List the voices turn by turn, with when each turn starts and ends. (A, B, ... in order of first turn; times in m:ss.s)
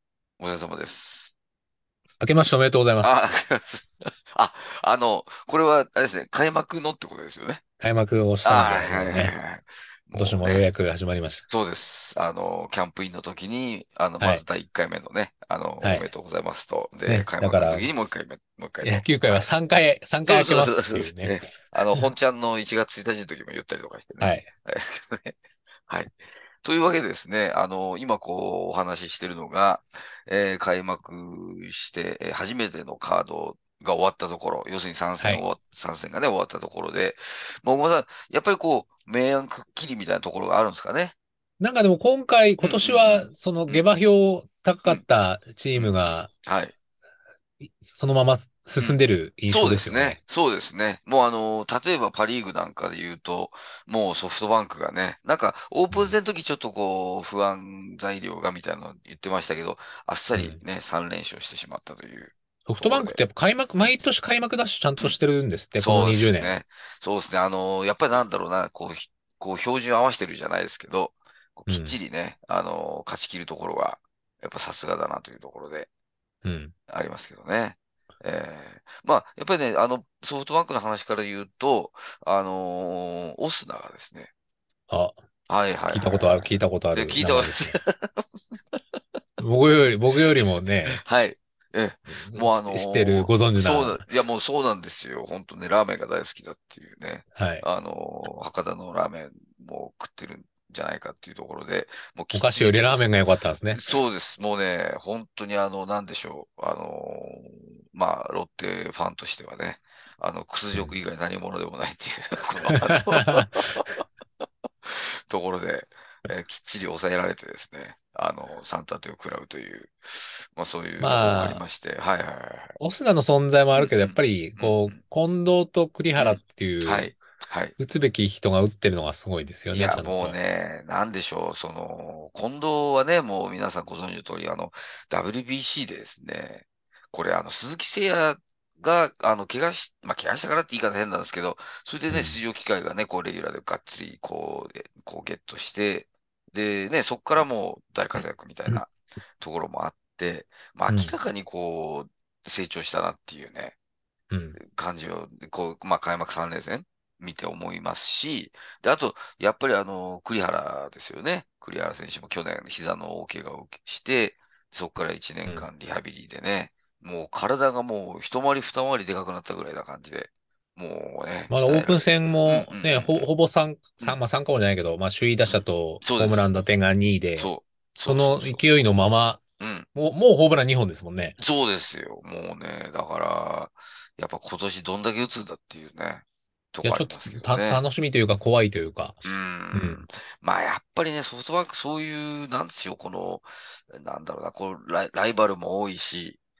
0:00.4-0:01.3 A
0:02.2-0:03.2 B
0:03.0-0:07.6 A
0:07.8-0:09.3 B
0:08.4-0:10.7 A
0:10.2-0:11.5 B
0:11.5-0:19.4 A
0:15.8-0:16.1 B
0:17.1-0:17.9 B
0:18.8-0:22.1 B
0:20.2-0:25.4 A
0:24.2-0:24.5 B
0:25.9-0:41.1 A
0:41.6-0:46.3 B
0:42.6-0:43.9 A
0:45.8-0:46.7 A
0:47.6-0:50.2 B
0:48.8-1:03.2 A
1:00.4-1:00.6 B
1:02.7-1:06.6 B
1:05.8-1:15.9 A
1:11.7-1:12.0 B
1:16.4-1:16.7 B
1:16.9-1:24.3 A
1:24.9-1:25.2 B
1:25.5-1:28.2 A
1:25.9-1:27.8 B
1:29.4-1:31.0 B
1:30.9-1:43.1 A
1:32.1-1:34.0 B
1:37.4-1:37.6 B
1:42.3-1:43.8 B
1:43.7-1:53.9 A
1:52.9-1:53.4 B
1:54.8-2:02.8 A
2:01.0-2:01.6 B
2:02.8-2:07.2 B
2:03.7-2:05.0 A
2:06.2-2:07.8 A
2:07.8-2:10.4 B
2:09.7-2:33.8 A
2:22.1-2:22.4 B
2:30.9-2:31.1 B
2:34.3-2:34.6 B
2:34.6-2:53.3 A
2:51.5-2:57.5 B
2:55.5-2:56.6 A
2:57.4-2:58.7 A
2:58.1-2:59.4 B
2:59.6-2:59.9 A
2:59.9-3:01.4 B
3:01.4-3:07.8 A
3:06.8-3:10.0 B
3:09.2-3:16.4 A